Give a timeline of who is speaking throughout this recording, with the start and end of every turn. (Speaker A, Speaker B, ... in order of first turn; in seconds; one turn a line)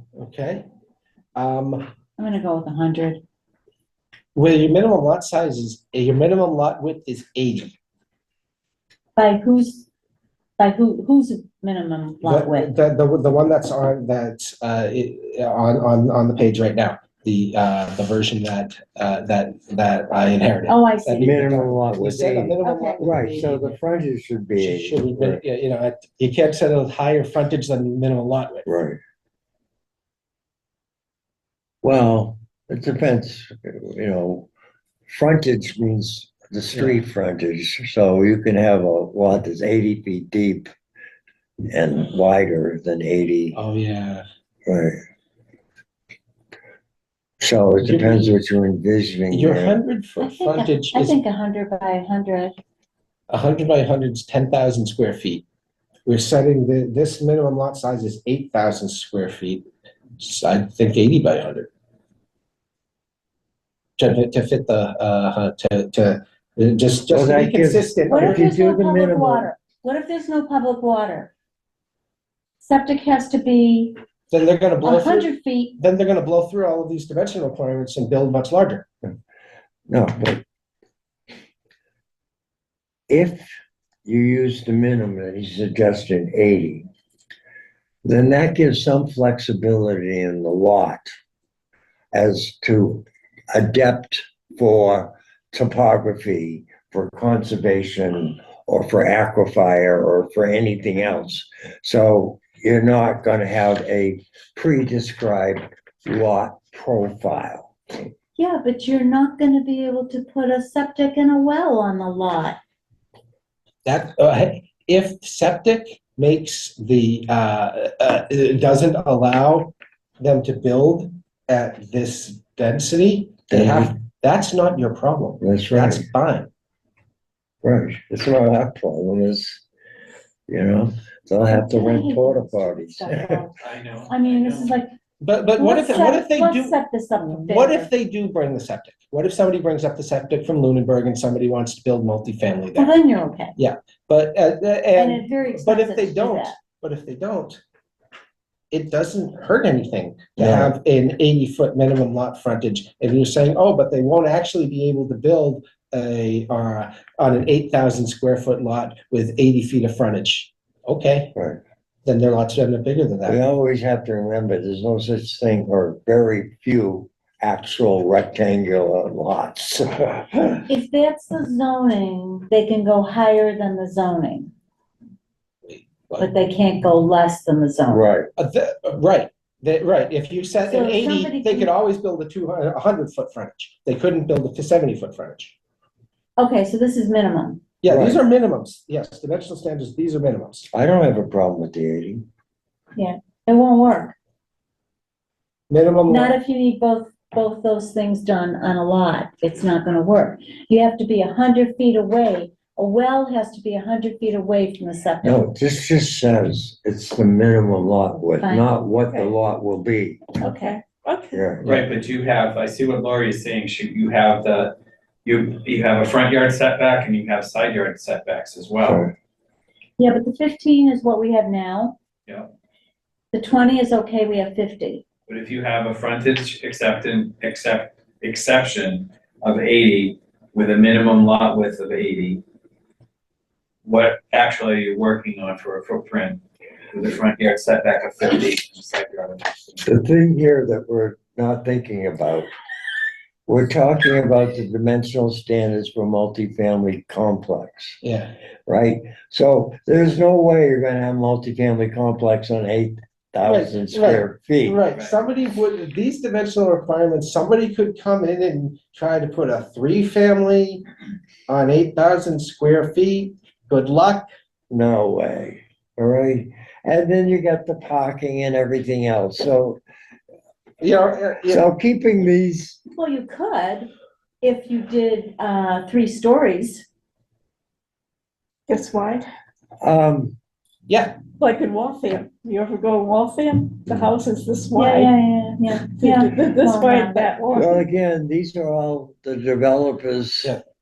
Speaker A: 0.1-0.6
Speaker A: 1.3-1.9
Speaker B: 2.2-3.2
Speaker A: 4.3-7.7
Speaker B: 9.2-9.9
Speaker B: 10.6-12.7
Speaker A: 12.2-23.8
Speaker B: 20.7-21.4
Speaker C: 21.2-25.4
Speaker B: 22.6-23.0
Speaker A: 24.6-28.7
Speaker C: 28.6-29.0
Speaker C: 31.8-34.5
Speaker C: 35.1-40.7
Speaker A: 36.7-37.0
Speaker C: 41.7-43.6
Speaker A: 43.5-44.2
Speaker C: 44.7-45.0
Speaker C: 47.4-49.8
Speaker A: 47.8-48.4
Speaker A: 49.3-51.2
Speaker B: 50.2-52.5
Speaker A: 53.3-55.4
Speaker A: 56.0-59.6
Speaker A: 60.2-61.7
Speaker A: 64.0-68.5
Speaker C: 67.1-69.5
Speaker B: 68.1-71.3
Speaker B: 72.6-73.9
Speaker A: 74.3-78.9
Speaker B: 74.8-75.7
Speaker C: 79.9-80.4
Speaker C: 83.1-83.5
Speaker C: 84.0-86.8
Speaker C: 88.0-91.1
Speaker C: 92.1-107.7
Speaker B: 108.3-112.6
Speaker A: 113.8-126.5
Speaker C: 123.5-123.9
Speaker C: 125.4-126.1
Speaker C: 127.6-129.6
Speaker C: 130.5-133.4
Speaker B: 131.5-133.5
Speaker D: 133.6-134.8
Speaker B: 134.1-134.9
Speaker A: 135.2-142.9
Speaker B: 135.6-137.9
Speaker B: 142.8-143.5
Speaker A: 143.6-147.6
Speaker B: 144.9-146.6
Speaker A: 148.7-161.3
Speaker C: 150.4-150.7
Speaker C: 161.3-161.6
Speaker A: 162.0-163.4
Speaker C: 163.3-170.6
Speaker B: 170.7-174.5
Speaker A: 175.7-176.3
Speaker B: 176.2-178.0
Speaker C: 177.9-178.3
Speaker A: 178.4-185.5
Speaker B: 180.6-181.7
Speaker B: 186.4-187.6
Speaker A: 187.8-190.7
Speaker C: 187.9-188.2
Speaker C: 190.7-192.2
Speaker B: 192.9-194.1
Speaker A: 195.7-196.3
Speaker B: 196.1-205.5
Speaker C: 205.2-210.4
Speaker B: 208.4-208.7
Speaker E: 210.4-211.5
Speaker C: 211.3-211.8
Speaker D: 211.6-219.1
Speaker C: 218.8-219.1
Speaker B: 220.0-221.9
Speaker B: 223.3-225.0
Speaker D: 225.3-232.4
Speaker D: 233.8-240.0
Speaker C: 239.8-242.5
Speaker C: 243.5-248.0
Speaker A: 248.0-248.3
Speaker C: 248.7-254.8
Speaker A: 253.4-260.8
Speaker D: 254.9-255.2
Speaker A: 261.5-264.2
Speaker C: 264.7-269.8
Speaker A: 270.8-271.7
Speaker C: 271.4-272.8
Speaker B: 272.9-273.9
Speaker B: 274.4-276.9
Speaker E: 278.7-279.3
Speaker C: 279.8-280.4
Speaker A: 280.9-281.2
Speaker E: 281.3-285.1
Speaker B: 284.7-287.3
Speaker E: 285.9-287.9
Speaker C: 287.5-290.6